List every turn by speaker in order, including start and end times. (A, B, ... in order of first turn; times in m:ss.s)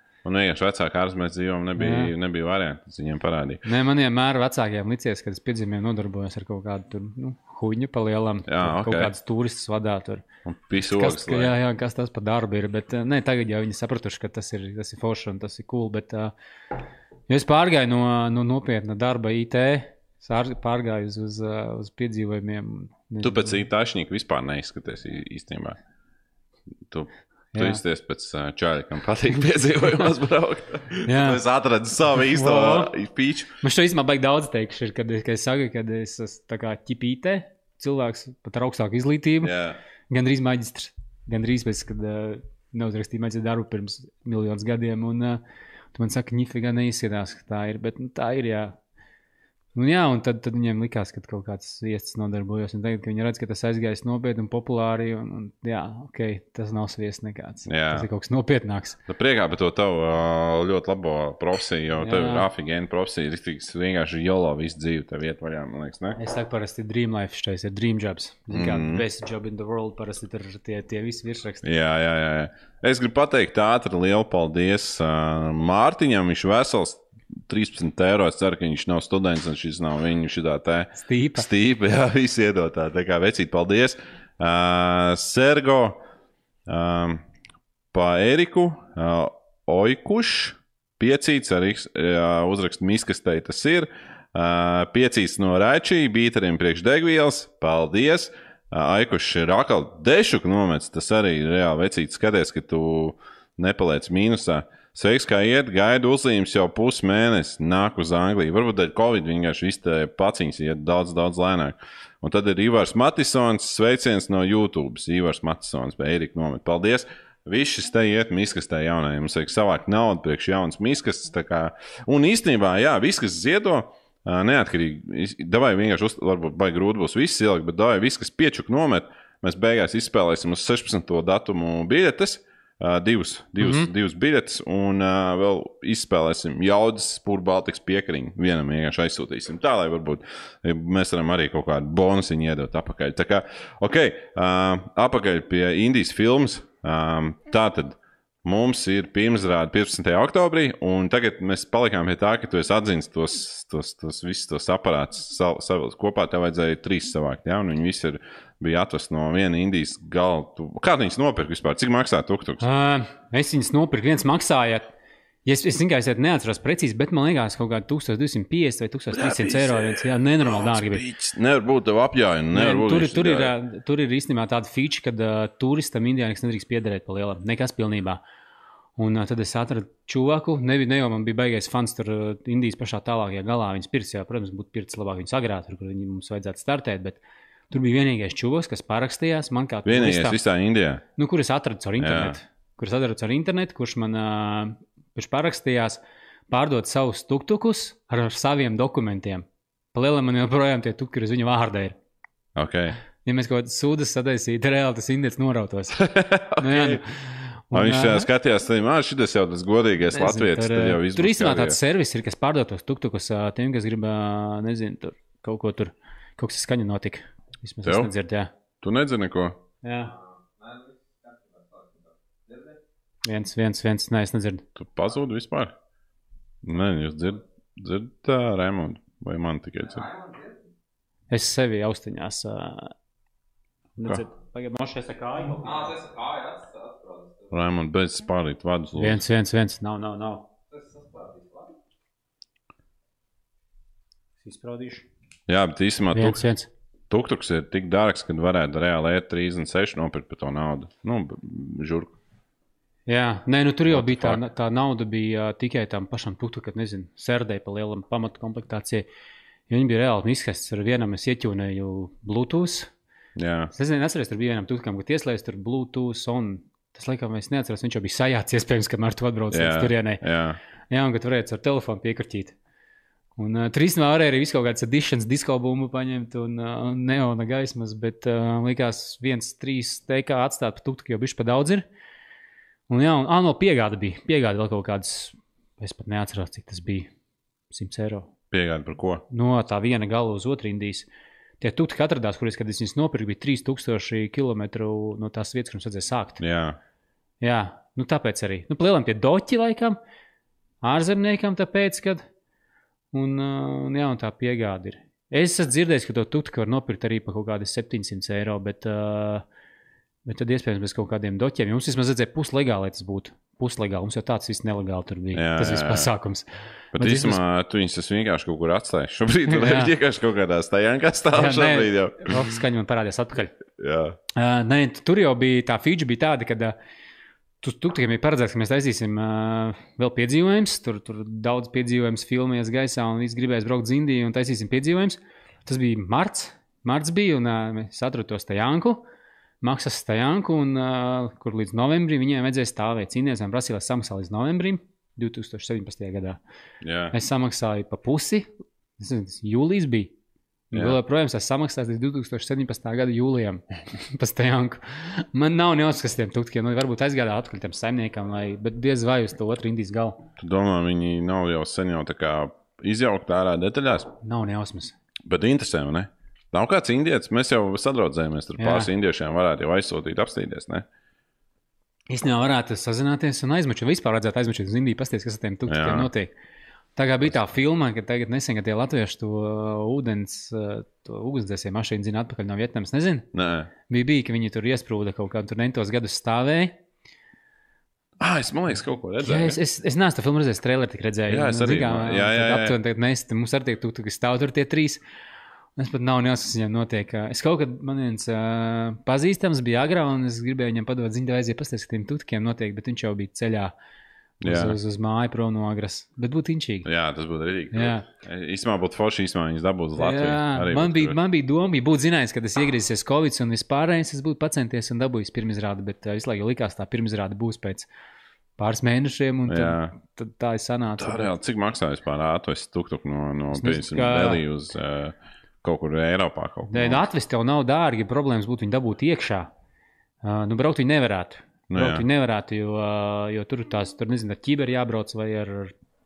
0:00.2-0:03.6 A
0:01.8-0:02.1 B
0:03.6-0:10.2 B
0:08.4-0:09.1 A
0:10.4-0:11.5 A
0:10.8-0:16.3 B
0:17.3-0:23.6 B
0:23.2-0:25.8 A
0:26.9-0:33.5 A
0:27.5-0:27.8 B
0:31.0-0:31.4 B
0:32.1-0:32.9 B
0:33.6-0:39.5 B
0:39.4-0:39.8 A
0:40.1-0:45.4 B
0:45.9-0:48.8 B
0:49.7-0:59.0 B
0:57.6-0:58.1 A
0:59.1-1:06.2 A
1:02.0-1:02.5 B
1:06.2-1:11.6 B
1:08.5-1:09.0 A
1:11.6-1:26.0 A
1:21.0-1:21.4 B
1:26.7-1:27.2 A
1:27.9-2:42.6 A
2:13.6-2:13.9 B
2:42.6-2:44.9 B
2:45.4-2:51.0 B
2:49.1-2:53.5 A
2:52.5-2:58.2 B
2:59.0-3:10.4 B
3:09.8-3:11.0 A
3:11.2-3:22.0 B
3:12.0-3:12.4 A
3:22.6-3:23.0 A
3:23.2-3:26.0 B
3:26.0-3:27.0 A
3:26.6-3:28.3 B
3:27.7-3:31.8 A
3:30.1-3:38.5 B
3:37.8-3:38.1 A
3:38.8-3:39.6 A
3:39.8-3:40.1 B
3:40.0-3:42.8 C
3:43.2-3:44.6 B
3:44.8-3:45.7 A
3:46.6-3:50.1 A
3:49.8-3:50.7 C
3:51.3-3:52.9 B
3:54.0-3:56.0 B
3:55.6-3:57.5 C
3:57.5-3:59.2 A
3:59.0-4:00.5 B
4:00.7-4:01.7 C
4:04.4-4:05.1 B
4:05.5-4:06.4 A
4:06.1-4:06.7 B
4:07.1-4:12.1 A
4:13.1-4:19.0 B
4:13.9-4:14.4 A
4:19.7-4:22.9 B
4:23.4-4:23.7 A
4:23.7-4:30.2 B
4:29.5-4:30.6 A
4:30.9-4:32.6 B
4:33.4-4:41.8 B
4:42.9-4:47.1 B
4:47.7-4:48.3 B
4:48.5-4:49.2 A
4:49.3-4:51.1 B
4:51.6-4:56.4 B
4:56.4-4:56.8 A
4:57.4-5:00.0 B
5:00.8-5:02.3 B
5:03.1-5:09.4 B
5:10.2-5:17.4 B
5:15.3-5:16.1 A
5:16.9-5:22.4 A
5:19.5-5:19.9 B
5:21.3-5:23.5 B
5:23.8-5:24.2 A
5:24.3-5:26.7 B
5:27.6-5:39.0 B
5:39.6-5:46.4 B
5:46.8-5:47.2 A
5:47.1-5:50.1 B
5:50.7-6:00.2 B
6:00.4-6:04.1 A
6:04.2-6:04.9 B
6:05.3-6:10.8 A
6:08.6-6:08.9 B
6:12.1-6:16.3 B
6:15.7-6:16.1 A
6:17.0-6:23.3 B
6:23.3-6:23.7 A
6:23.9-6:26.8 B
6:28.2-6:29.6 A
6:29.2-6:35.0 B
6:31.3-6:32.8 A
6:35.8-6:43.7 B
6:44.4-6:44.8 A
6:44.4-6:46.8 B
6:46.8-6:51.2 A
6:47.7-6:48.0 B
6:50.0-6:57.9 B
6:58.6-7:01.3 B
6:59.4-6:59.9 A
7:01.0-7:07.1 A
7:03.5-7:04.4 B
7:06.7-7:09.5 B
7:10.2-7:15.7 B
7:11.7-7:12.0 A